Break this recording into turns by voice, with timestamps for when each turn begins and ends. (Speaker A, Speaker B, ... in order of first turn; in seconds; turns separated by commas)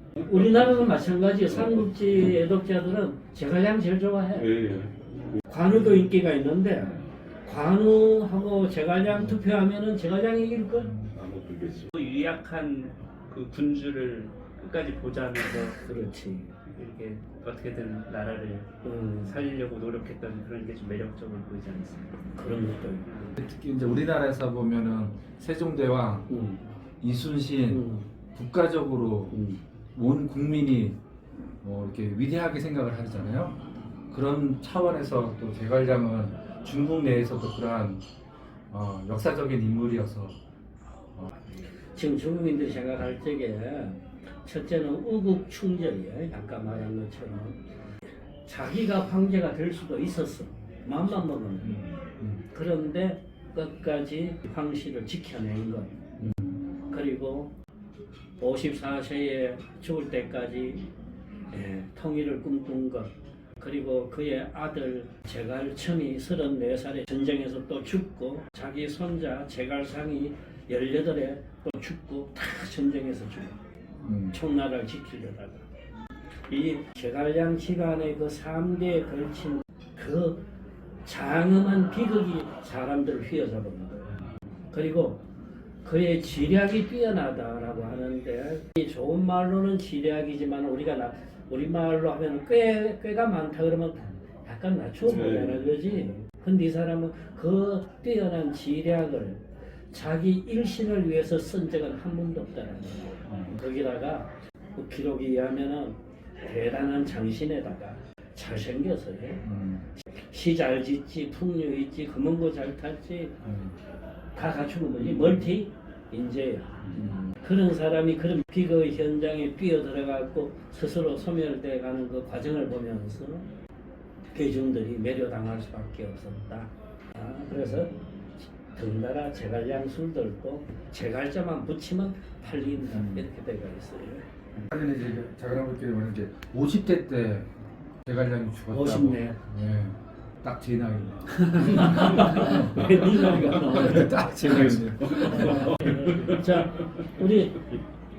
Speaker A: 0.2-4.5, Speaker B: 4.4-5.4, Speaker A: 5.5-11.0, Speaker B: 11.1-11.9, Speaker C: 11.9-15.8, Speaker A: 15.8-16.5, Speaker C: 16.7-18.7, Speaker A: 18.8-19.4, Speaker C: 19.2-22.1, Speaker A: 22.4-23.1, Speaker D: 23.4-26.3, Speaker A: 26.3-26.6, Speaker D: 27.0-27.8, Speaker A: 27.7-28.1, Speaker D: 28.4-29.4, Speaker A: 29.3-29.6, Speaker D: 29.9-31.0, Speaker D: 31.6-33.6, Speaker D: 34.1-38.0, Speaker D: 38.7-40.4, Speaker A: 41.9-47.6, Speaker A: 48.5-51.9, Speaker A: 52.5-56.0, Speaker D: 56.2-56.6, Speaker A: 56.9-57.5, Speaker A: 58.4-60.9, Speaker A: 61.5-73.6, Speaker D: 74.0-74.4, Speaker A: 74.3-75.6, Speaker A: 76.5-80.4, Speaker A: 81.0-84.1, Speaker A: 84.7-85.2, Speaker A: 85.8-109.4, Speaker B: 95.1-95.8, Speaker D: 109.4-109.9, Speaker A: 110.0-113.4, Speaker D: 113.5-113.8, Speaker A: 114.3-123.5, Speaker A: 124.3-134.2, Speaker D: 132.9-133.2, Speaker D: 134.6-137.5, Speaker D: 138.1-145.8, Speaker A: 138.7-139.4, Speaker A: 141.4-147.7, Speaker B: 143.0-143.5, Speaker B: 144.8-146.5